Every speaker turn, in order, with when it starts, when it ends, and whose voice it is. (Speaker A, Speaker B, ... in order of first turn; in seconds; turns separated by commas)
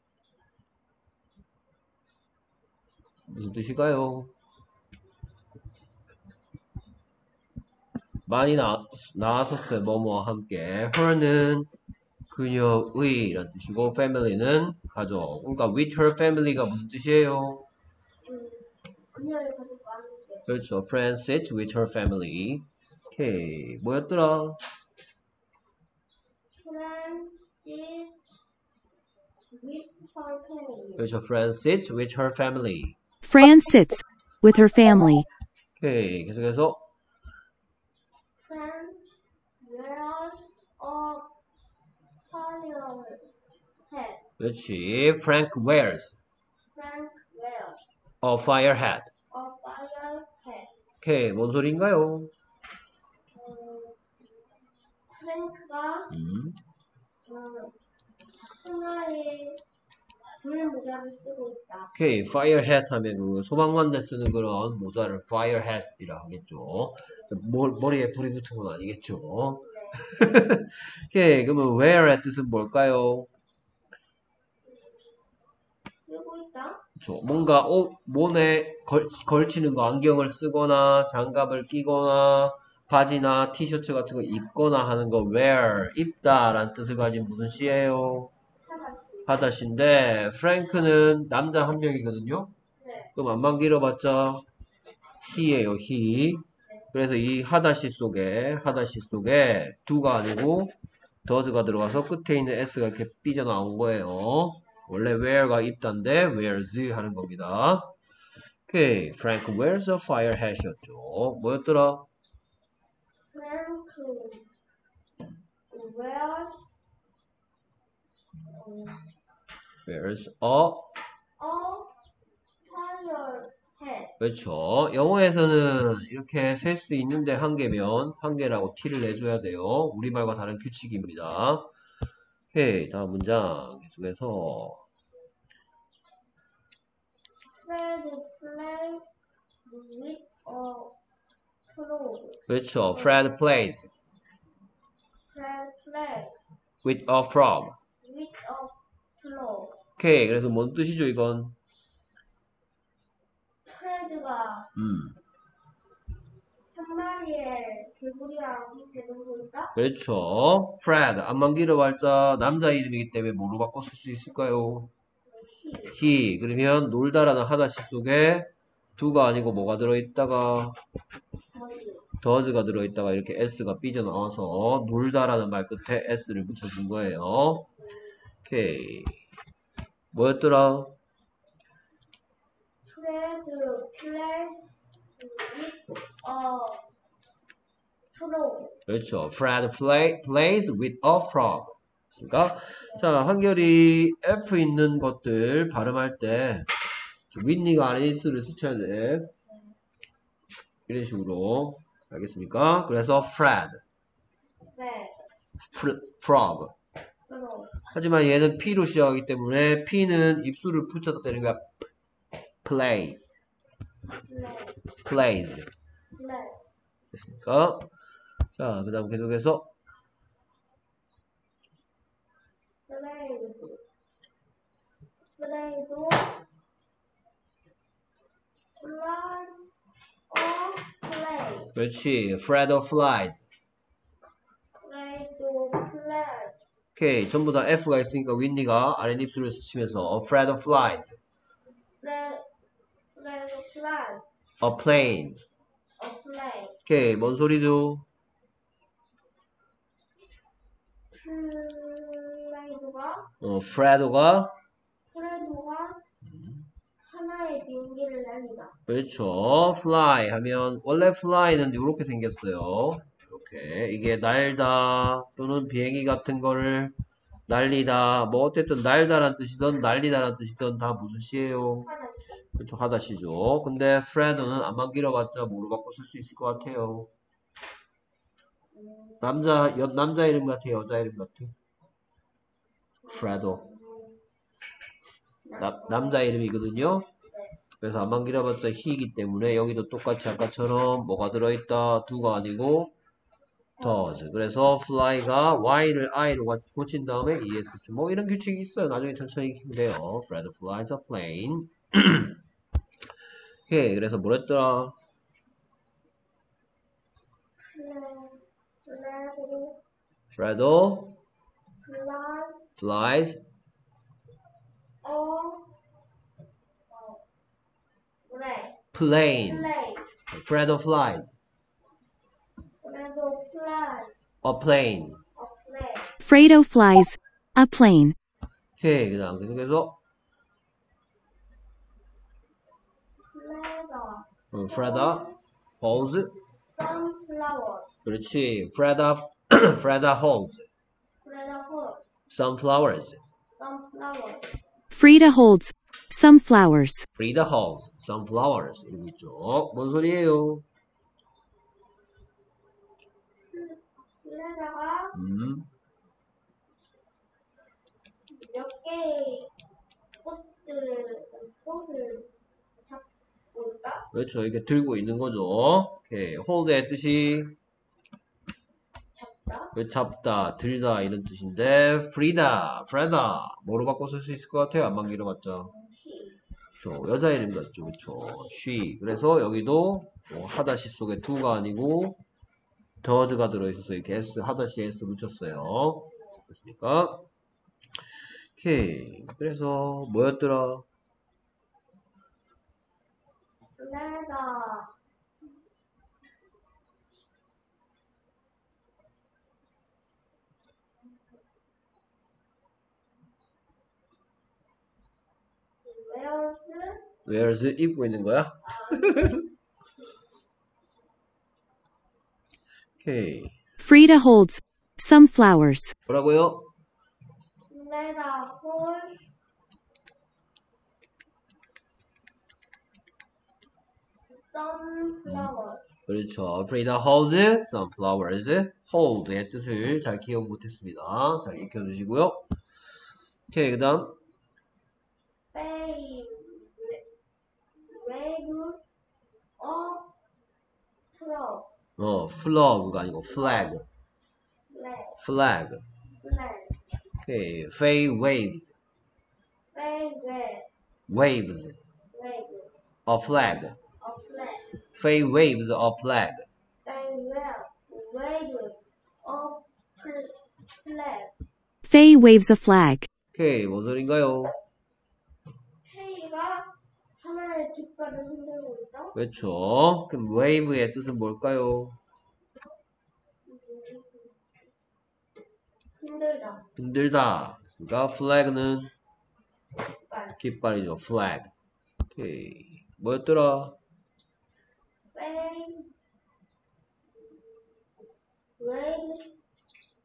Speaker A: 3.3-4.3, Speaker A: 8.3-11.7, Speaker A: 12.3-17.7, Speaker B: 18.2-20.5, Speaker A: 20.4-24.6, Speaker B: 26.6-28.2, Speaker B: 29.5-31.0, Speaker A: 31.0-33.0, Speaker C: 33.2-35.2, Speaker A: 35.8-36.8, Speaker B: 38.4-39.0, Speaker B: 39.6-41.3, Speaker B: 42.2-43.3, Speaker B: 43.9-44.2, Speaker A: 44.4-46.2, Speaker B: 46.7-48.0, Speaker A: 48.2-49.1, Speaker B: 49.3-50.7, Speaker A: 51.0-52.3, Speaker B: 53.3-54.0, Speaker B: 55.1-56.1, Speaker A: 56.1-56.6, Speaker B: 57.2-57.8, Speaker B: 58.4-59.6, Speaker B: 60.4-61.9, Speaker A: 61.9-73.3, Speaker B: 69.6-70.1, Speaker B: 76.1-76.8, Speaker A: 77.0-88.3, Speaker B: 88.7-89.4, Speaker A: 89.3-92.5, Speaker B: 92.8-93.1, Speaker A: 93.2-94.5, Speaker A: 95.2-100.7, Speaker A: 101.2-107.9, Speaker A: 108.7-112.1, Speaker B: 113.2-114.5, Speaker B: 115.7-116.8, Speaker B: 118.5-119.1, Speaker A: 119.8-120.9, Speaker B: 121.4-121.9, Speaker B: 122.7-124.2, Speaker A: 124.2-131.7, Speaker A: 132.5-134.8, Speaker B: 137.5-141.0, Speaker B: 141.7-143.3, Speaker A: 142.5-143.9, Speaker B: 145.3-146.5, Speaker A: 146.8-147.8, Speaker B: 148.0-149.8, Speaker A: 150.0-151.6, Speaker B: 153.7-154.7, Speaker A: 154.7-155.2, Speaker B: 156.7-159.7, Speaker A: 159.7-164.9, Speaker B: 165.3-166.0, Speaker A: 165.9-170.8, Speaker B: 171.5-172.1, Speaker A: 172.2-177.7, Speaker A: 178.4-179.2, Speaker A: 180.1-181.0, Speaker B: 182.8-186.8, Speaker B: 188.1-188.8, Speaker A: 188.9-196.7, Speaker B: 192.8-193.1, Speaker A: 197.3-199.3, Speaker A: 200.9-203.8, Speaker B: 204.7-205.2, Speaker A: 205.6-206.7, Speaker B: 207.3-207.8, Speaker A: 207.9-211.7, Speaker A: 212.6-213.2, Speaker B: 214.2-214.8, Speaker A: 215.0-215.7, Speaker B: 216.2-216.6, Speaker A: 217.1-217.9, Speaker A: 218.6-219.7, Speaker B: 222.9-223.8, Speaker B: 225.4-226.4, Speaker B: 228.8-229.7, Speaker B: 230.3-231.7, Speaker A: 231.7-233.5, Speaker B: 234.8-236.7, Speaker A: 237.0-241.2, Speaker B: 242.0-242.4, Speaker B: 243.1-244.2, Speaker A: 244.6-245.4, Speaker B: 246.0-246.8, Speaker A: 246.8-248.0, Speaker B: 251.1-253.3, Speaker A: 253.4-254.5, Speaker B: 255.1-256.0, Speaker A: 256.3-256.6, Speaker B: 257.0-258.8, Speaker A: 258.9-266.9, Speaker A: 267.5-271.9, Speaker B: 271.8-272.5, Speaker A: 272.6-277.1, Speaker B: 278.7-279.3, Speaker A: 279.2-281.5, Speaker B: 283.0-284.2, Speaker A: 283.1-283.6, Speaker B: 285.4-286.3, Speaker A: 285.6-287.1, Speaker B: 287.3-287.5, Speaker A: 287.8-292.9, Speaker B: 293.8-294.5, Speaker A: 293.8-302.4, Speaker A: 303.7-305.0, Speaker B: 307.6-309.8, Speaker A: 310.4-311.2, Speaker B: 311.8-312.7, Speaker A: 312.8-313.4, Speaker B: 315.0-315.7, Speaker B: 316.9-317.2, Speaker B: 318.3-318.8, Speaker A: 318.9-319.7, Speaker B: 319.4-320.1, Speaker A: 320.3-321.3, Speaker B: 322.8-324.2, Speaker A: 324.4-325.2, Speaker B: 325.4-326.2, Speaker C: 326.2-328.1, Speaker A: 328.8-330.0, Speaker B: 333.3-335.4, Speaker A: 334.5-335.3, Speaker A: 335.8-336.3, Speaker B: 336.5-337.9, Speaker A: 338.0-340.7, Speaker B: 341.2-342.1, Speaker A: 342.3-343.2, Speaker B: 343.6-344.6, Speaker C: 344.9-347.1, Speaker A: 347.1-350.6, Speaker B: 353.5-355.1, Speaker A: 355.1-355.7, Speaker B: 358.3-359.5, Speaker B: 360.2-364.1, Speaker A: 364.1-367.6, Speaker B: 369.1-369.7, Speaker A: 369.8-375.7, Speaker B: 375.6-376.4, Speaker A: 376.8-382.2, Speaker A: 383.0-387.2, Speaker A: 388.6-390.8, Speaker B: 393.8-394.9, Speaker B: 405.8-407.1, Speaker A: 407.2-409.4, Speaker B: 408.6-409.5, Speaker A: 413.0-413.6, Speaker C: 413.8-415.9, Speaker A: 416.1-416.7, Speaker B: 417.7-419.4, Speaker B: 424.1-426.1, Speaker A: 425.2-425.5, Speaker A: 426.1-432.5, Speaker A: 433.5-434.1, Speaker B: 435.5-437.0, Speaker B: 437.8-438.9, Speaker B: 439.6-440.1, Speaker B: 441.1-441.7, Speaker A: 442.0-443.9, Speaker B: 443.3-443.8, Speaker B: 444.7-445.2, Speaker A: 445.2-445.8, Speaker B: 446.2-446.8, Speaker A: 447.2-448.8, Speaker B: 449.7-450.7, Speaker A: 451.1-451.8, Speaker B: 452.1-452.8, Speaker A: 453.1-453.8, Speaker B: 454.0-454.7, Speaker A: 454.9-456.5, Speaker B: 456.8-461.3, Speaker C: 461.8-463.1, Speaker A: 463.3-464.5, Speaker B: 465.8-469.2, Speaker A: 469.1-472.0, Speaker B: 473.4-474.4, Speaker B: 476.0-476.6, Speaker A: 476.8-478.9, Speaker B: 480.1-480.4, Speaker A: 480.4-481.5, Speaker A: 482.1-483.8, Speaker B: 485.1-485.9, Speaker B: 488.6-489.4